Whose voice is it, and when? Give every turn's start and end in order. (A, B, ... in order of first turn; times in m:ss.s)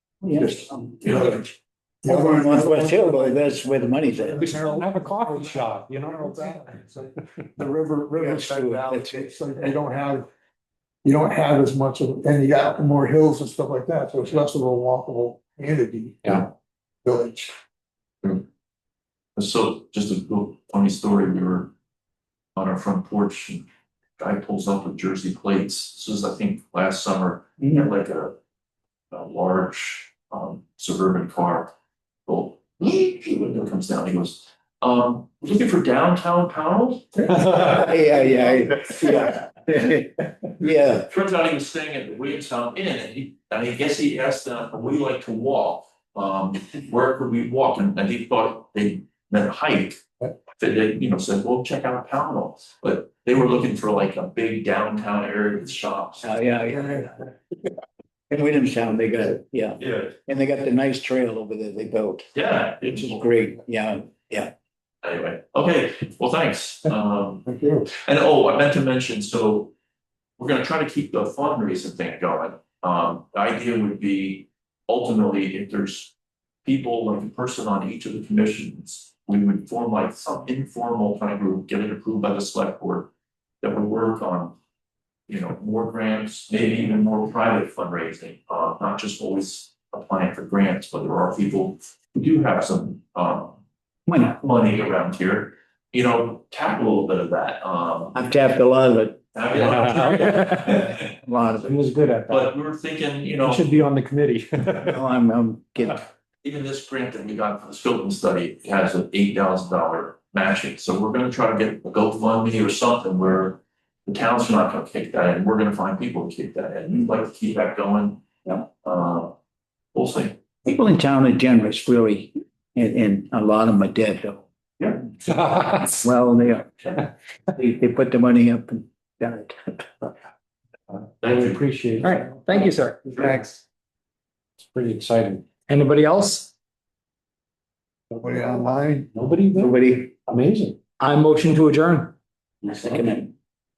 0:00.2-0:01.5 A
0:00.4-0:01.5 B
0:01.0-0:01.4 C
0:02.0-0:03.4 B
0:02.1-0:04.7 A
0:04.0-0:10.3 B
0:04.3-0:06.8 D
0:08.2-0:09.3 A
0:11.0-0:16.5 B
0:17.0-0:17.5 B
0:19.4-0:21.7 C
0:22.6-0:23.7 C
0:24.2-0:28.4 C
0:27.6-0:27.9 A
0:29.1-0:31.7 C
0:32.3-0:37.3 C
0:37.3-0:41.1 A
0:41.1-0:50.0 C
0:50.6-0:56.3 C
0:56.2-0:57.3 A
0:58.3-1:02.3 A
0:59.8-1:00.1 C
1:02.3-1:03.3 C
1:02.9-1:04.5 A
1:05.0-1:09.7 C
1:07.5-1:07.9 B
1:10.4-1:16.1 C
1:16.6-1:23.1 C
1:23.6-1:24.6 C
1:25.3-1:33.6 C
1:34.1-1:34.4 A
1:34.2-1:38.2 C
1:38.1-1:39.2 A
1:39.3-1:41.1 C
1:39.5-1:40.7 D
1:40.9-1:41.8 A
1:41.6-1:42.6 D
1:42.3-1:43.7 C
1:43.4-1:45.0 D
1:44.8-1:46.0 A
1:46.4-1:59.3 C
1:59.9-2:00.4 C
2:00.6-2:04.4 A
2:05.3-2:06.0 D
2:05.8-2:09.9 A
2:11.2-2:11.7 C
2:11.2-2:13.5 D
2:12.0-2:13.4 E
2:13.1-2:13.4 C
2:14.6-2:15.6 D
2:15.7-2:16.5 E
2:18.1-2:19.1 B
2:19.1-2:20.8 D
2:19.6-2:20.1 A
2:21.0-2:22.2 E
2:22.6-2:23.3 A